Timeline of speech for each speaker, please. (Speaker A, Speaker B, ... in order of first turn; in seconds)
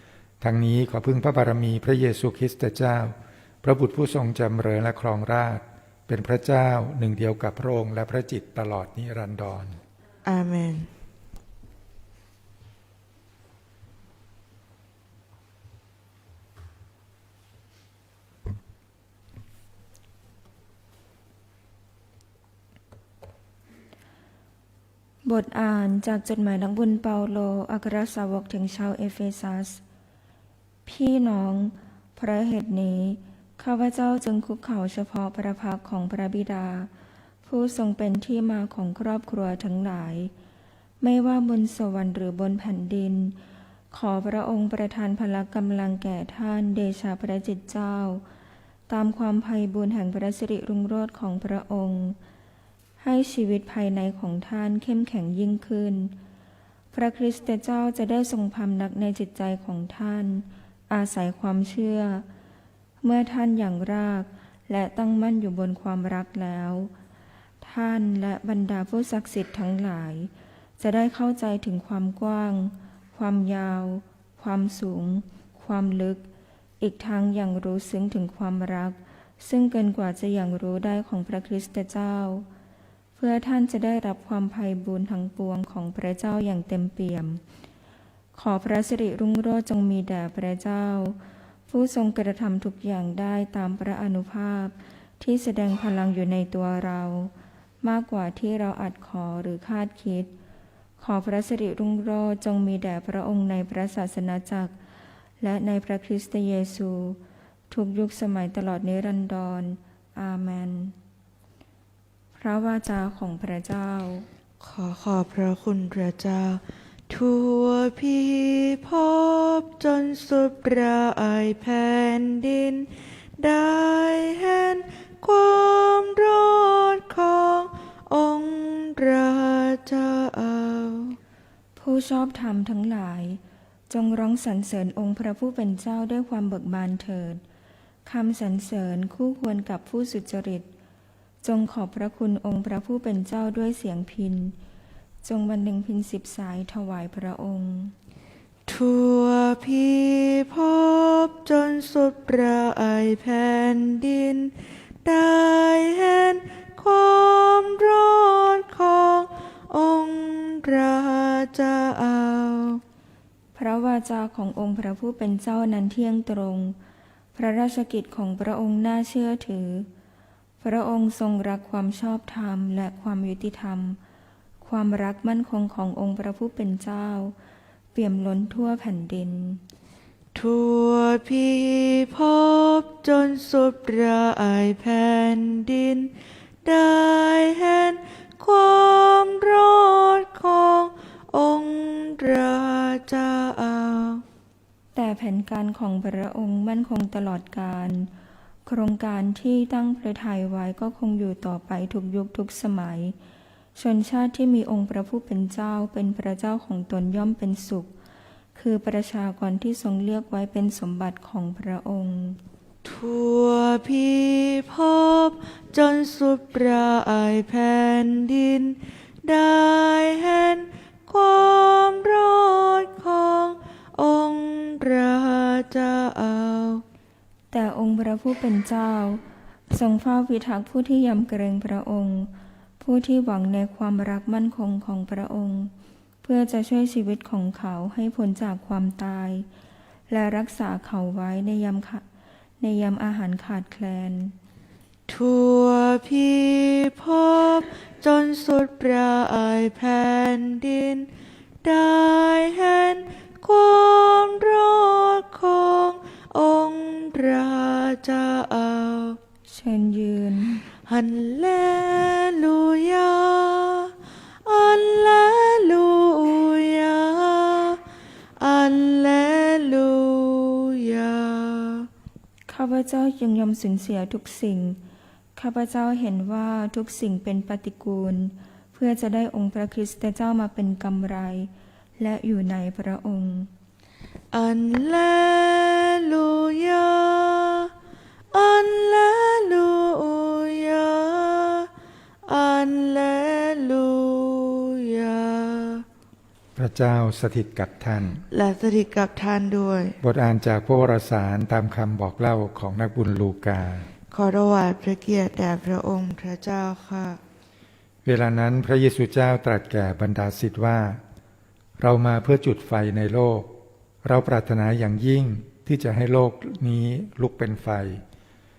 Speaker A: 0.4-9.8, 296.6-298.3, 300.0-303.9, 308.1-311.0, 311.8-318.0
Speaker B: 10.2-10.9, 114.6-131.2, 148.7-162.8, 180.3-194.2, 212.8-226.8, 245.1-251.1, 251.6-259.2, 260.9-263.9, 264.4-267.8, 268.4-271.9, 284.3-287.7, 288.3-291.7, 292.3-295.9, 298.3-300.0, 304.1-307.2
Speaker C: 25.2-29.8, 30.9-36.9, 37.5-40.3, 41.0-43.4, 43.9-48.2, 48.9-52.2, 53.0-56.1, 56.9-62.3, 63.0-66.9, 67.6-76.3, 76.8-82.5, 83.2-87.4, 88.3-100.3, 101.0-104.8, 105.4-111.0, 112.4-114.3, 131.8-137.4, 138.1-140.7, 141.4-144.6, 145.2-147.9, 163.6-166.8, 167.3-169.9, 170.6-174.0, 174.6-177.3, 177.9-179.6, 194.9-198.1, 198.7-203.2, 203.8-207.9, 208.6-212.4, 227.5-235.7, 236.2-239.5, 240.1-242.1, 242.6-244.4, 259.5-260.6, 272.5-274.8, 275.4-283.5